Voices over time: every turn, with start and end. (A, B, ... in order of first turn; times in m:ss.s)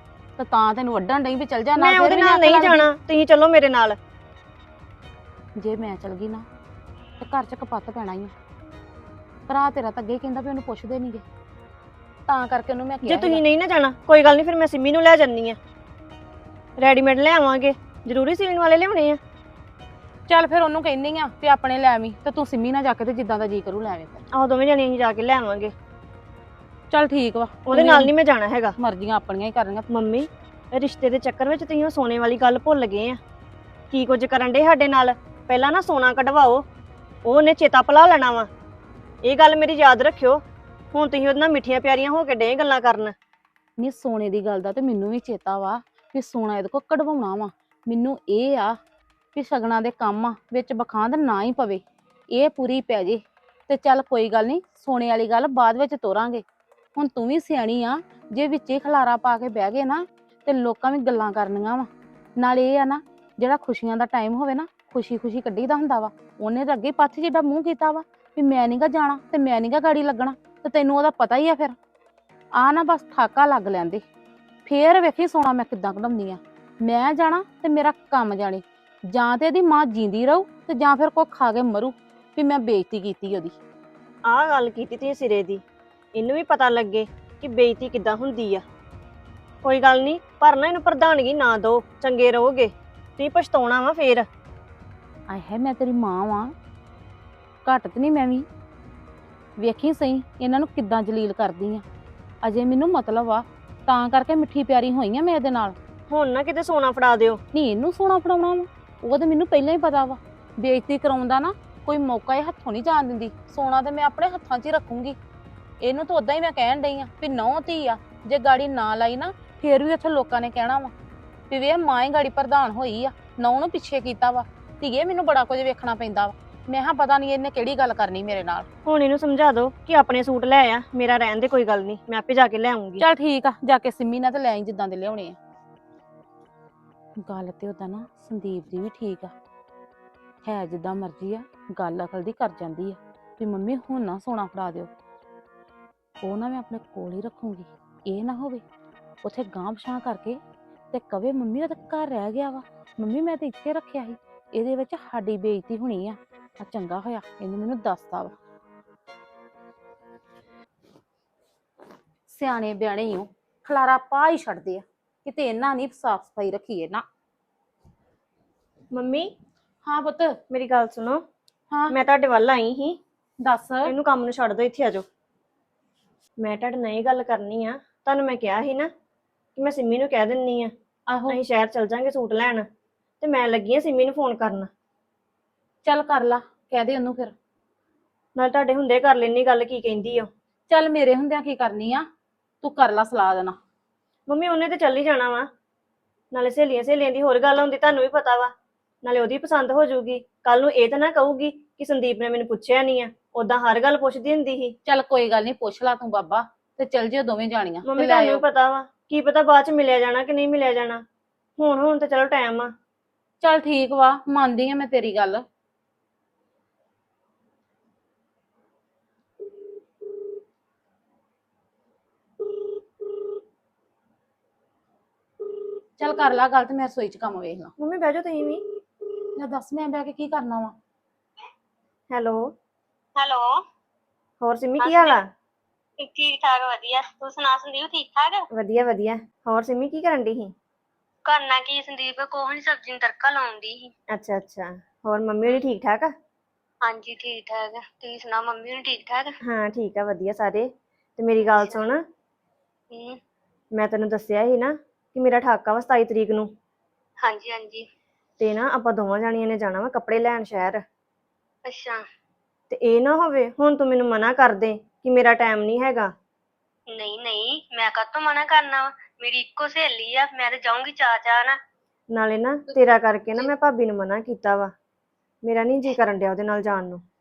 0:00.4-0:02.9 A
0:01.8-0:04.0 B
0:05.6-0:06.4 A
0:07.2-0:08.3 A
0:09.5-0:11.2 A
0:12.3-0:13.4 A
0:13.0-0:15.6 B
0:16.8-0:19.2 B
0:20.3-0:24.2 A
0:24.3-0:25.7 B
0:26.9-0:28.1 A
0:27.7-0:28.8 B
0:28.8-0:29.9 A
0:29.9-0:33.2 B
0:33.9-0:36.6 B
0:37.2-0:38.5 B
0:39.2-0:40.4 B
0:40.9-0:43.1 B
0:43.8-0:48.8 A
0:49.4-0:56.4 A
0:57.0-1:11.8 A
1:12.6-1:14.0 A
1:14.7-1:23.6 A
1:24.3-1:25.6 B
1:26.2-1:28.6 B
1:29.6-1:34.3 B
1:35.3-1:36.5 A
1:37.6-1:38.5 A
1:39.6-1:41.8 A
1:42.4-1:45.8 A
1:46.1-1:47.4 B
1:47.5-1:55.2 A
1:55.8-2:00.9 A
2:01.5-2:08.7 A
2:08.9-2:13.0 B
2:13.0-2:15.4 A
2:17.2-2:19.3 A
2:20.4-2:24.9 A
2:26.2-2:28.6 A
2:29.2-2:30.4 A
2:30.9-2:38.3 A
2:42.3-2:47.0 A
2:48.9-2:49.3 B
2:49.8-2:50.4 A
2:50.5-2:51.2 B
2:51.9-2:53.0 B
2:53.4-2:53.9 A
2:53.9-2:55.0 B
2:56.4-2:58.9 B
2:59.6-3:00.7 B
3:01.1-3:01.4 A
3:01.3-3:02.7 B
3:03.2-3:04.7 B
3:05.8-3:07.3 A
3:08.4-3:10.3 B
3:10.7-3:12.0 A
3:12.6-3:13.6 A
3:14.3-3:15.5 B
3:16.3-3:18.5 B
3:19.0-3:24.8 B
3:24.9-3:28.4 A
3:27.8-3:31.0 B
3:31.6-3:32.7 B
3:33.4-3:35.4 A
3:46.0-3:47.7 A
3:47.8-3:48.6 B
3:49.4-3:50.8 A
3:52.1-3:52.5 B
3:53.2-3:53.6 C
3:54.4-3:55.3 B
3:54.8-3:55.2 C
3:56.0-3:58.5 C
3:58.5-4:00.5 B
4:01.2-4:03.9 C
4:04.1-4:06.1 B
4:06.8-4:09.4 C
4:09.4-4:12.0 B
4:11.4-4:11.9 C
4:12.9-4:13.2 C
4:13.7-4:16.5 B
4:17.2-4:17.9 C
4:18.4-4:20.8 B
4:21.6-4:22.0 C
4:22.7-4:26.1 B
4:26.9-4:31.6 C
4:32.1-4:34.7 B
4:35.4-4:37.0 B